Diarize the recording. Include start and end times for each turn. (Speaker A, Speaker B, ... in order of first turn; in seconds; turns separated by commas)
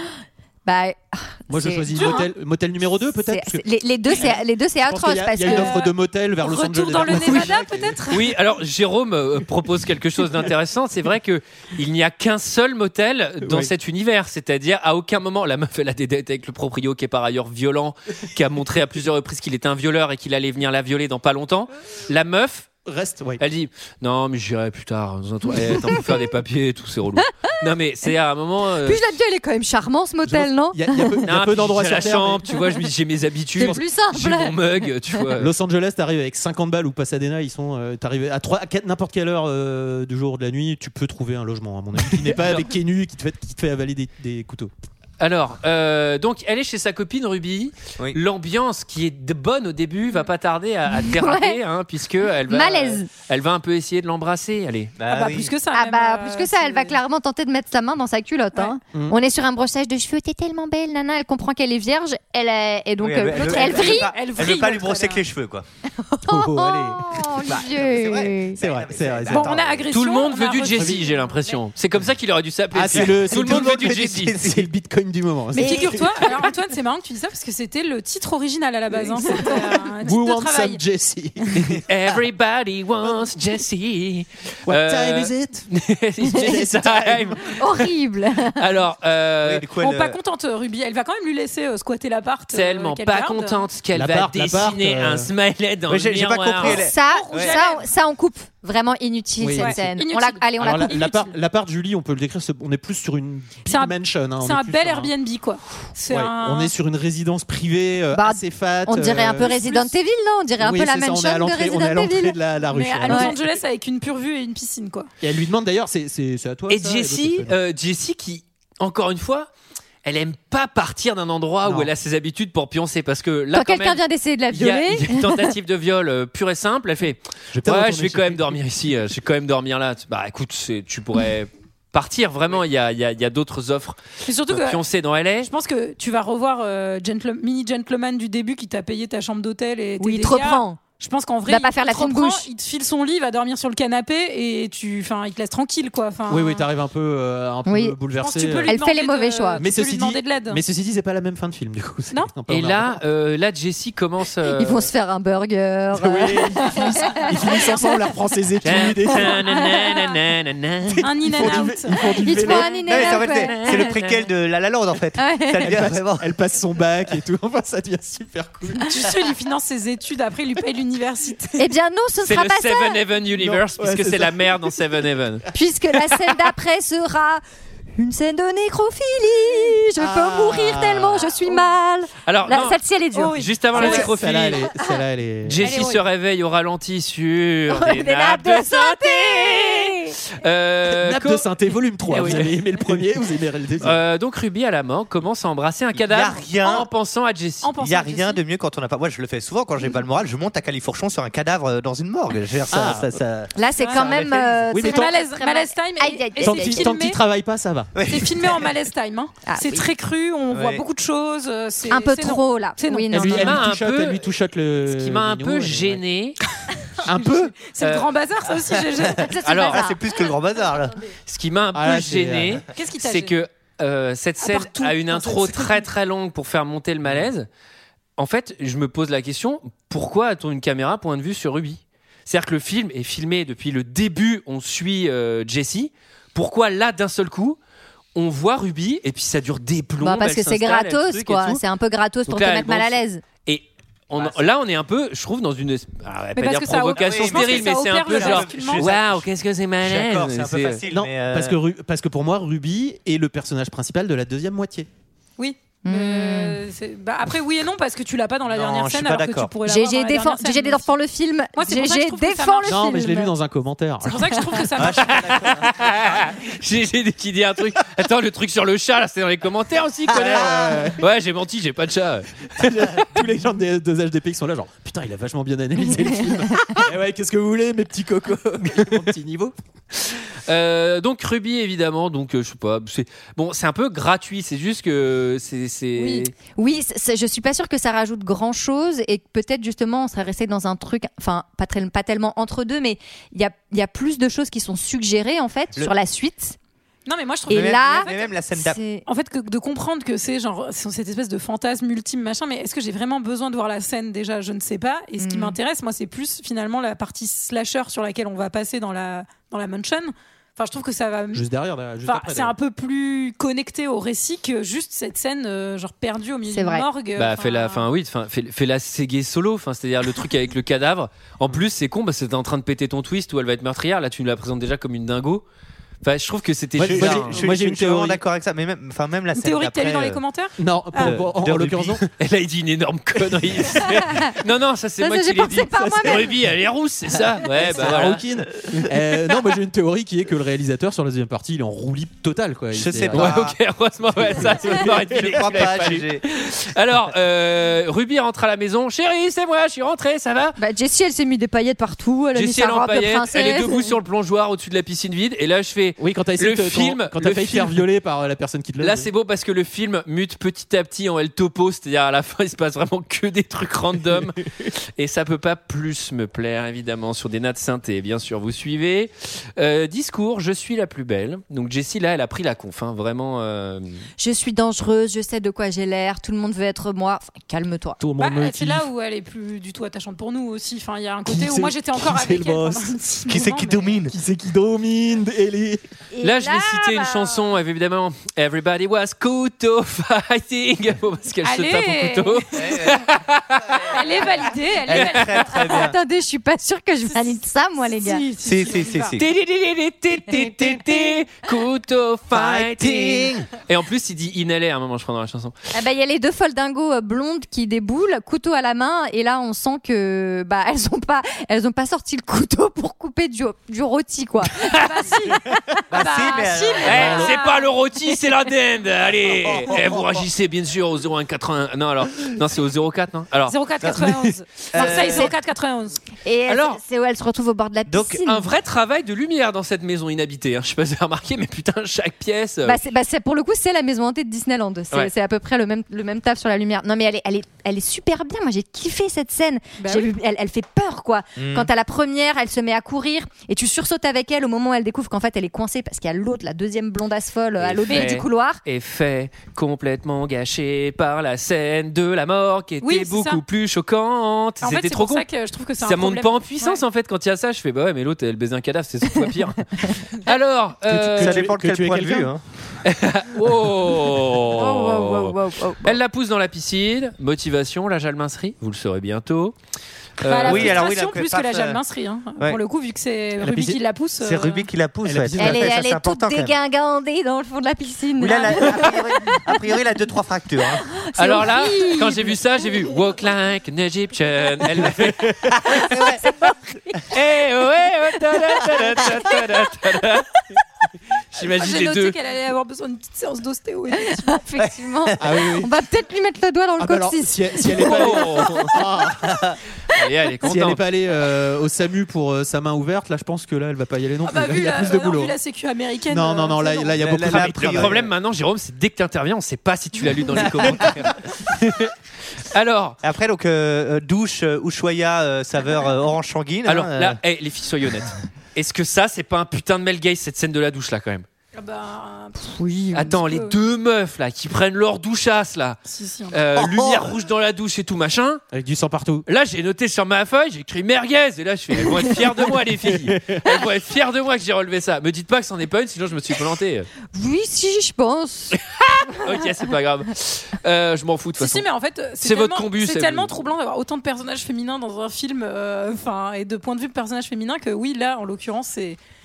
Speaker A: 0.7-2.2, Speaker B: 1.5-4.3, Speaker C: 1.9-2.3, Speaker A: 3.2-5.8, Speaker B: 4.9-8.0, Speaker C: 5.4-8.3, Speaker D: 7.1-7.7, Speaker E: 8.1-22.7, Speaker B: 13.4-13.7, Speaker B: 22.8-23.4, Speaker E: 23.4-29.0, Speaker A: 28.8-31.2, Speaker B: 30.3-32.5, Speaker E: 31.2-35.5, Speaker A: 33.6-34.8, Speaker B: 35.4-44.7, Speaker E: 42.3-42.7, Speaker E: 45.2-54.9, Speaker A: 50.9-51.6, Speaker A: 52.5-53.1, Speaker D: 55.0-55.5, Speaker C: 55.1-57.0, Speaker A: 55.7-64.1, Speaker D: 63.0-65.6, Speaker C: 63.3-65.2, Speaker A: 66.0-68.6, Speaker B: 66.2-67.6, Speaker D: 67.4-69.9, Speaker B: 68.5-69.5, Speaker C: 69.3-71.6, Speaker E: 69.9-74.3, Speaker B: 70.8-71.1, Speaker B: 72.7-76.2, Speaker D: 72.9-74.7, Speaker A: 75.5-76.3, Speaker C: 75.5-80.8, Speaker B: 80.0-81.8, Speaker E: 81.8-87.9, Speaker B: 84.7-85.7, Speaker B: 86.3-87.4, Speaker A: 87.5-88.6, Speaker E: 88.5-89.7, Speaker D: 89.4-90.2, Speaker C: 89.8-93.7, Speaker E: 92.5-96.8, Speaker B: 93.9-95.3, Speaker D: 95.9-97.6, Speaker A: 96.6-101.1, Speaker C: 96.8-97.8, Speaker B: 99.4-99.8, Speaker C: 99.6-101.3, Speaker B: 100.6-105.1, Speaker C: 103.7-106.7, Speaker B: 106.1-109.6, Speaker A: 108.1-112.4, Speaker C: 109.4-109.9, Speaker B: 110.6-113.3, Speaker C: 112.7-115.1, Speaker A: 113.1-113.3, Speaker B: 115.2-117.5, Speaker E: 116.7-119.5, Speaker E: 120.0-135.5, Speaker B: 121.6-121.9, Speaker A: 123.5-125.5, Speaker B: 127.5-128.6, Speaker C: 134.2-134.8, Speaker C: 135.4-146.6, Speaker A: 140.0-140.8, Speaker A: 141.5-142.5, Speaker B: 146.3-148.7, Speaker A: 147.7-148.0, Speaker C: 148.2-150.6, Speaker A: 148.7-149.6, Speaker B: 149.6-153.0, Speaker E: 152.5-154.9, Speaker A: 154.5-157.7, Speaker B: 155.9-159.4, Speaker C: 157.6-158.0, Speaker E: 158.6-161.1, Speaker B: 160.9-162.7, Speaker C: 161.0-162.6, Speaker A: 162.2-163.9, Speaker E: 162.8-164.2, Speaker D: 162.8-166.3, Speaker A: 165.2-165.7, Speaker B: 165.6-169.1, Speaker C: 168.8-171.6, Speaker A: 171.6-173.0, Speaker E: 172.2-175.4, Speaker B: 173.4-174.8, Speaker A: 175.5-177.4, Speaker A: 177.9-184.0, Speaker B: 179.9-181.3, Speaker E: 182.2-184.6, Speaker C: 183.1-184.0, Speaker B: 183.7-185.6, Speaker E: 185.4-191.4, Speaker C: 185.6-186.0, Speaker A: 187.7-190.1, Speaker B: 190.9-194.0, Speaker E: 192.1-192.6, Speaker E: 193.8-197.7, Speaker D: 195.9-196.9, Speaker C: 197.6-198.4, Speaker D: 197.8-204.7, Speaker B: 202.7-203.2, Speaker A: 203.6-206.9, Speaker C: 203.8-207.2, Speaker B: 204.7-205.1, Speaker B: 206.4-207.9, Speaker D: 207.9-208.7, Speaker C: 208.1-213.6, Speaker A: 209.4-209.8, Speaker D: 210.5-210.8, Speaker A: 211.9-213.5, Speaker B: 213.1-216.0, Speaker E: 213.3-214.2, Speaker E: 214.8-216.4, Speaker B: 217.0-217.5, Speaker C: 217.0-219.3, Speaker E: 217.8-218.1, Speaker D: 218.9-221.0, Speaker A: 219.2-220.0, Speaker E: 219.4-219.8, Speaker E: 221.3-227.5, Speaker B: 221.7-222.6, Speaker C: 222.7-223.4, Speaker C: 224.4-225.9, Speaker E: 228.2-237.6, Speaker E: 238.1-241.6, Speaker A: 240.0-243.2, Speaker E: 242.2-250.8, Speaker D: 244.2-244.4, Speaker C: 246.3-248.9, Speaker D: 246.9-249.3, Speaker D: 249.8-251.6, Speaker B: 250.9-254.9, Speaker C: 255.4-260.9, Speaker A: 255.8-256.6, Speaker D: 258.4-259.5, Speaker A: 259.6-263.3, Speaker C: 261.6-263.0, Speaker B: 262.6-264.4, Speaker C: 264.0-265.2, Speaker D: 264.8-266.3, Speaker E: 265.0-273.0, Speaker B: 270.1-271.0, Speaker D: 270.1-270.9, Speaker B: 272.6-279.5, Speaker E: 280.5-286.3, Speaker A: 286.0-296.6, Speaker C: 297.1-298.3, Speaker A: 297.5-299.0, Speaker D: 297.5-298.8, Speaker C: 299.1-311.4, Speaker A: 305.2-305.6, Speaker B: 311.3-312.5, Speaker C: 312.0-317.9, Speaker A: 316.5-316.9, Speaker E: 317.1-325.4, Speaker E: 326.0-327.4, Speaker B: 326.8-328.2, Speaker D: 326.8-330.2, Speaker C: 329.3-331.2, Speaker B: 330.6-332.0, Speaker D: 331.0-332.0, Speaker E: 332.1-338.9, Speaker A: 333.9-334.3, Speaker A: 335.0-336.3, Speaker B: 335.7-336.3, Speaker B: 337.5-343.5, Speaker D: 337.7-338.2, Speaker D: 342.7-343.6, Speaker E: 343.1-350.6, Speaker B: 344.2-345.0, Speaker D: 344.3-346.2, Speaker A: 350.6-353.9, Speaker E: 352.3-357.8, Speaker B: 356.0-359.1, Speaker E: 358.8-364.4, Speaker E: 365.0-374.0, Speaker A: 374.2-378.0, Speaker B: 378.0-378.9, Speaker C: 378.2-384.0, Speaker B: 381.2-383.0, Speaker D: 383.3-384.1, Speaker B: 384.1-385.8, Speaker A: 386.1-387.4, Speaker E: 386.2-394.0, Speaker C: 391.4-392.9, Speaker D: 392.6-393.0, Speaker C: 393.9-395.9, Speaker D: 394.9-396.0, Speaker A: 395.7-398.3, Speaker C: 397.1-399.2, Speaker D: 398.4-399.2, Speaker E: 399.2-405.5, Speaker D: 402.3-403.5, Speaker A: 405.7-414.7, Speaker E: 414.6-414.9, Speaker C: 414.7-417.7, Speaker D: 415.9-417.3, Speaker E: 416.8-423.6, Speaker D: 419.3-420.2, Speaker C: 423.5-426.0, Speaker D: 423.8-424.2, Speaker D: 424.7-425.3, Speaker A: 424.8-425.3, Speaker A: 426.2-428.5, Speaker E: 426.5-426.8, Speaker D: 427.9-428.2, Speaker E: 428.2-432.8, Speaker A: 432.6-448.6, Speaker C: 439.8-440.1, Speaker D: 441.4-441.7, Speaker E: 447.6-455.2, Speaker C: 452.8-453.4, Speaker C: 454.6-456.8, Speaker E: 455.8-461.5, Speaker B: 460.9-462.3, Speaker D: 461.1-462.4, Speaker E: 462.8-469.5, Speaker A: 464.5-466.0, Speaker E: 470.2-470.8, Speaker C: 470.3-474.7, Speaker D: 470.4-471.8, Speaker B: 473.4-473.8, Speaker D: 474.2-476.6, Speaker B: 475.0-475.8, Speaker A: 475.4-479.6, Speaker D: 478.2-480.8, Speaker A: 480.8-482.4, Speaker E: 481.1-485.8, Speaker B: 485.0-485.5, Speaker D: 485.5-486.4, Speaker A: 486.2-486.5, Speaker E: 487.1-490.3, Speaker E: 491.3-492.1, Speaker C: 491.6-494.4, Speaker A: 494.2-498.3, Speaker D: 494.6-495.1, Speaker B: 495.2-495.7, Speaker B: 496.8-499.4, Speaker E: 497.8-498.6, Speaker D: 499.2-499.6, Speaker E: 499.9-500.8, Speaker B: 500.4-505.3, Speaker C: 504.2-507.0, Speaker B: 506.1-508.0, Speaker D: 507.0-508.1, Speaker E: 507.2-511.9, Speaker D: 510.5-511.1, Speaker E: 512.5-513.0, Speaker D: 513.0-517.2, Speaker E: 516.6-521.2, Speaker C: 521.5-522.5, Speaker A: 522.5-523.2, Speaker E: 522.9-525.8, Speaker C: 523.1-523.6, Speaker C: 525.9-526.4, Speaker E: 526.3-528.4, Speaker D: 526.6-527.0, Speaker B: 528.5-529.2, Speaker E: 529.3-536.9, Speaker B: 532.0-533.5, Speaker A: 537.1-538.5, Speaker E: 538.5-541.6, Speaker C: 541.4-549.0, Speaker E: 542.2-543.3